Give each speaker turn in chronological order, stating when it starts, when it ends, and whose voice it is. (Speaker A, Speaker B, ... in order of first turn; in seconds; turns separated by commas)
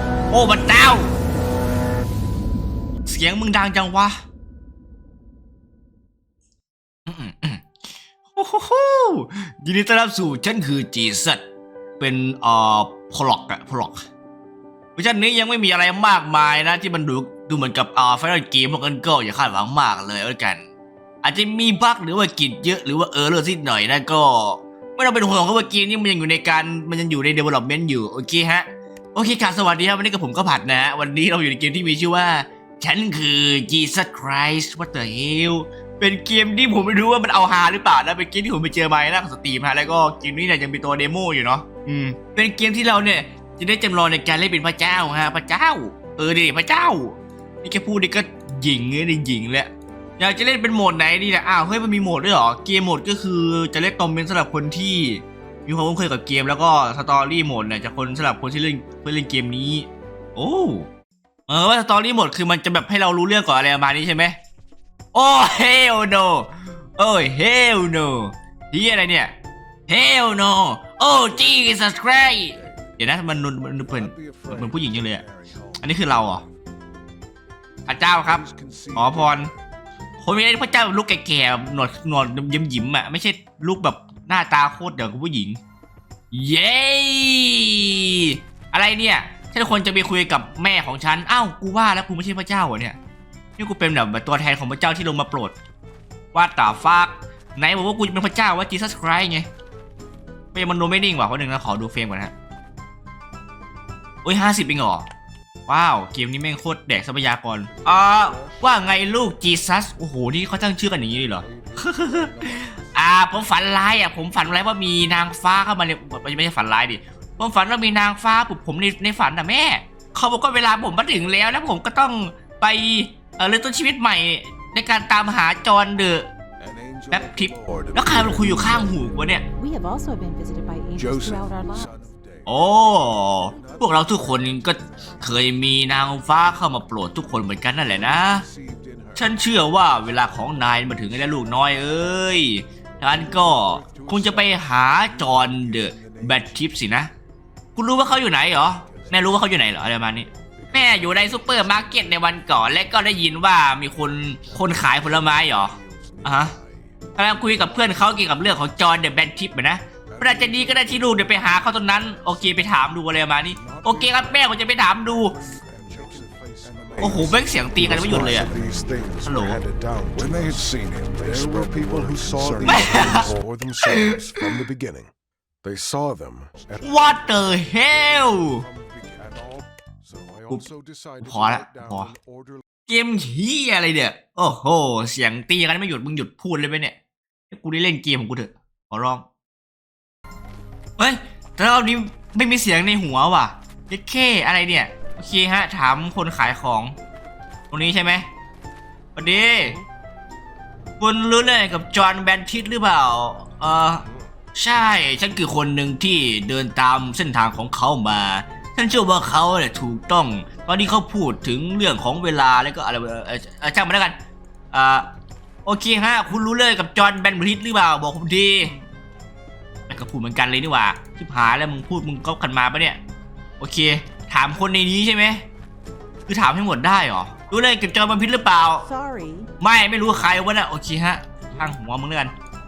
Speaker A: 0.3-1.1, Speaker A: 3.0-4.1, Speaker A: 7.1-7.8, Speaker A: 8.3-11.4, Speaker A: 12.0-14.0, Speaker A: 14.9-20.6, Speaker A: 21.2-60.9, Speaker A: 61.5-64.4, Speaker A: 65.1-69.3, Speaker A: 69.9-75.2, Speaker B: 74.1-75.6, Speaker A: 75.8-76.4, Speaker A: 77.9-79.5, Speaker B: 78.5-79.1, Speaker A: 80.2-85.6, Speaker A: 86.3-93.0, Speaker A: 93.6-95.5, Speaker A: 96.3-99.5, Speaker A: 100.5-102.3, Speaker A: 104.2-105.0, Speaker A: 105.7-126.3, Speaker B: 108.3-108.6, Speaker B: 111.5-111.8, Speaker B: 126.6-128.2, Speaker A: 127.1-129.4, Speaker C: 129.6-132.0, Speaker B: 131.0-132.4, Speaker A: 132.4-138.4, Speaker B: 138.5-139.2, Speaker A: 139.1-147.1, Speaker B: 143.8-144.2, Speaker B: 145.4-146.4, Speaker A: 147.8-156.5, Speaker B: 155.6-156.6, Speaker A: 157.1-165.4, Speaker B: 160.1-160.5, Speaker B: 163.7-164.2, Speaker B: 165.3-175.1, Speaker A: 167.0-168.5, Speaker A: 169.2-169.6, Speaker A: 172.7-174.6, Speaker B: 175.9-176.8, Speaker A: 176.8-178.6, Speaker B: 178.7-182.5, Speaker A: 181.2-182.1, Speaker A: 182.9-186.9, Speaker A: 187.5-189.2, Speaker A: 191.0-196.9, Speaker A: 197.7-198.2, Speaker A: 199.2-199.8, Speaker A: 201.0-214.2, Speaker A: 214.7-215.1, Speaker A: 215.6-218.7, Speaker A: 219.9-223.0, Speaker A: 223.6-225.4, Speaker A: 226.3-228.9, Speaker C: 228.8-229.5, Speaker A: 229.6-232.3